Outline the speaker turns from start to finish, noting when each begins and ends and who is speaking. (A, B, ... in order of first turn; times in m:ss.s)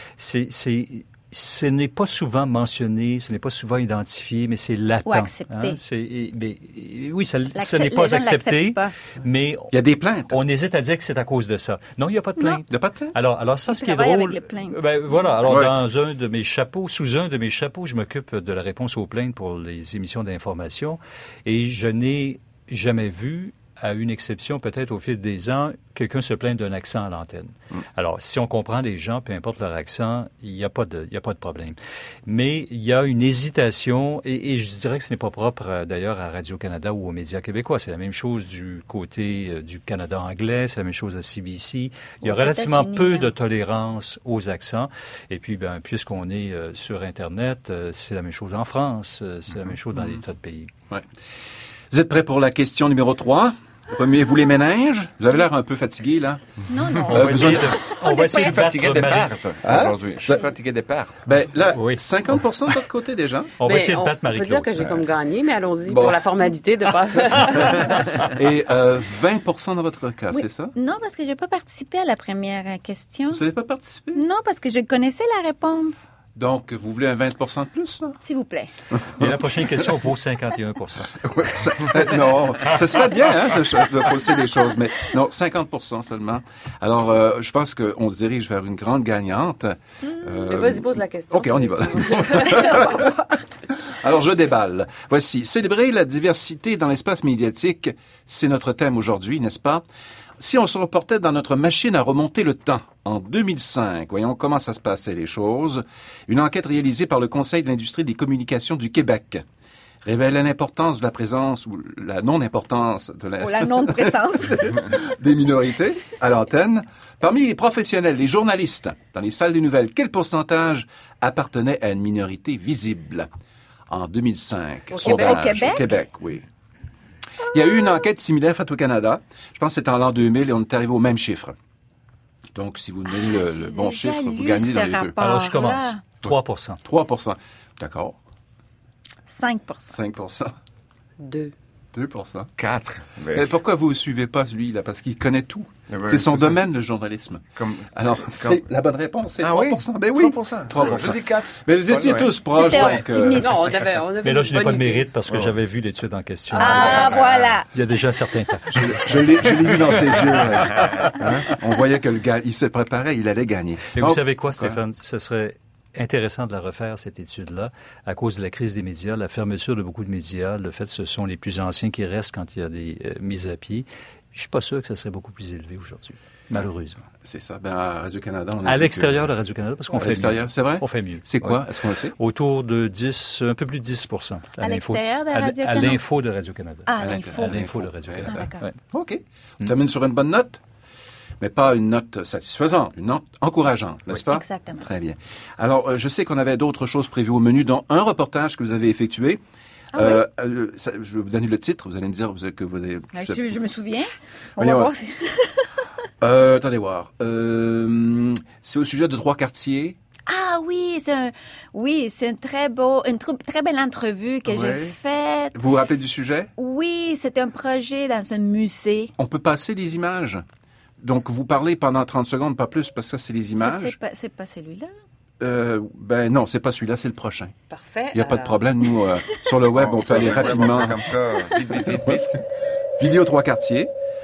0:00.2-0:09.7 A
0:05.0-0:05.8 B
0:07.6-0:08.9 B
0:09.7-0:10.4 C
0:10.3-0:50.7 A
0:12.7-0:13.1 C
0:13.7-0:15.3 B
0:15.4-0:15.7 C
0:42.2-0:43.3 B
0:51.9-0:56.4 C
0:56.7-0:58.6 B
0:57.1-0:57.7 C
0:57.1-0:59.3 A
0:58.1-1:01.2 D
0:59.6-1:00.4 C
1:01.2-1:03.5 C
1:01.8-1:02.0 A
1:03.6-1:04.9 A
1:03.6-1:08.1 E
1:05.9-1:06.2 C
1:08.2-1:10.7 C
1:10.3-1:13.4 B
1:13.3-1:14.2 C
1:14.1-1:16.1 B
1:16.4-1:18.2 C
1:18.2-1:18.7 B
1:19.2-1:21.2 A
1:21.2-1:33.2 C
1:30.4-1:32.8 E
1:32.5-1:33.3 B
1:33.8-1:39.8 C
1:40.4-1:49.4 C
1:50.0-2:03.3 C
1:53.4-1:55.0 B
2:03.9-2:06.4 C
2:04.9-2:05.6 E
2:05.0-2:05.9 B
2:07.5-2:11.6 C
2:12.5-2:15.2 C
2:13.1-2:16.0 B
2:15.2-2:16.8 A
2:16.8-2:18.2 C
2:19.3-2:19.9 B
2:19.9-2:20.5 C
2:21.2-2:21.5 E
2:21.9-2:22.5 C
2:22.6-2:23.6 D
2:23.3-2:33.7 C
2:25.9-2:26.6 D
2:27.6-2:28.7 D
2:29.4-2:32.3 D
2:32.5-2:33.6 B
2:32.7-2:35.1 E
2:34.2-2:40.4 A
2:36.5-2:36.8 E
2:36.5-2:37.7 B
2:36.9-2:37.3 D
2:38.7-2:44.8 C
2:44.0-2:57.0 A
2:57.2-2:59.3 C
2:58.6-3:01.6 A
2:59.9-3:02.1 C
3:02.2-3:08.7 A
3:04.6-3:06.0 B
3:06.9-3:07.6 B
3:07.0-3:10.6 C
3:08.3-3:08.6 B
3:11.4-3:19.4 C
3:14.3-3:14.8 B
3:19.9-3:20.2 B
3:20.0-3:23.4 C
3:23.1-3:25.8 B
3:24.6-3:24.9 C
3:26.2-3:30.0 C
3:30.3-3:35.5 B
3:34.4-3:34.9 C
3:35.5-3:36.5 C
3:36.6-3:39.1 B
3:39.2-3:40.4 C
3:41.0-3:44.0 C
3:43.6-3:44.9 B
3:45.4-3:47.5 C
3:47.7-3:48.6 E
3:48.1-3:51.1 C
3:49.7-3:52.4 D
3:51.9-3:52.1 C
3:53.0-3:53.9 C